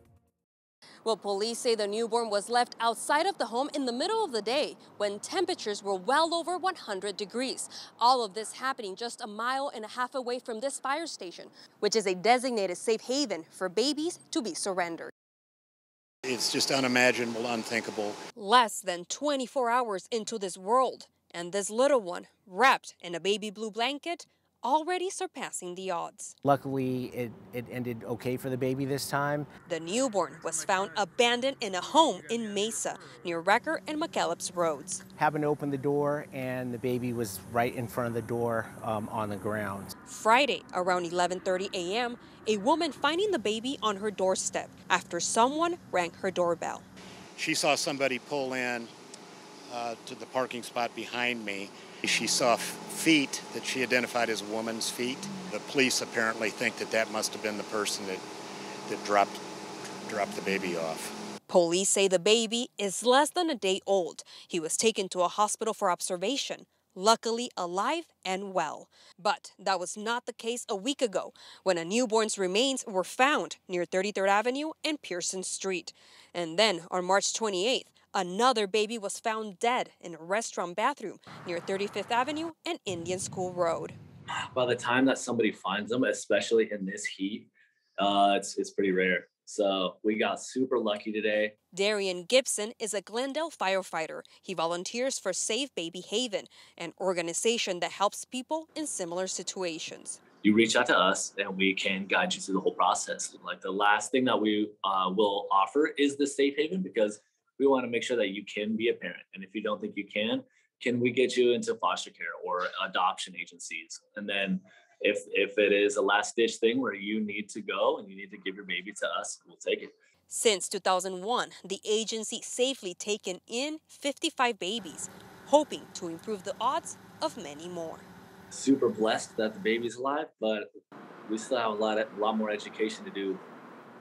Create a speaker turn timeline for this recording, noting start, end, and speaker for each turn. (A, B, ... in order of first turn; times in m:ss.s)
0:01.0-0:15.1 A
0:16.2-0:18.2 B
0:18.4-0:26.4 A
0:26.4-0:29.5 C
0:29.7-0:35.0 A
0:35.2-0:39.9 C
0:40.1-0:46.8 A
0:47.4-0:48.9 B
0:49.7-0:58.2 B
0:58.9-0:59.4 B
1:00.0-1:01.2 B
1:01.5-1:24.0 A
1:24.3-1:31.5 D
1:31.7-1:40.2 A
1:40.4-1:59.9 D
2:00.3-2:08.1 A
2:08.5-2:10.7 D
2:11.3-2:13.4 D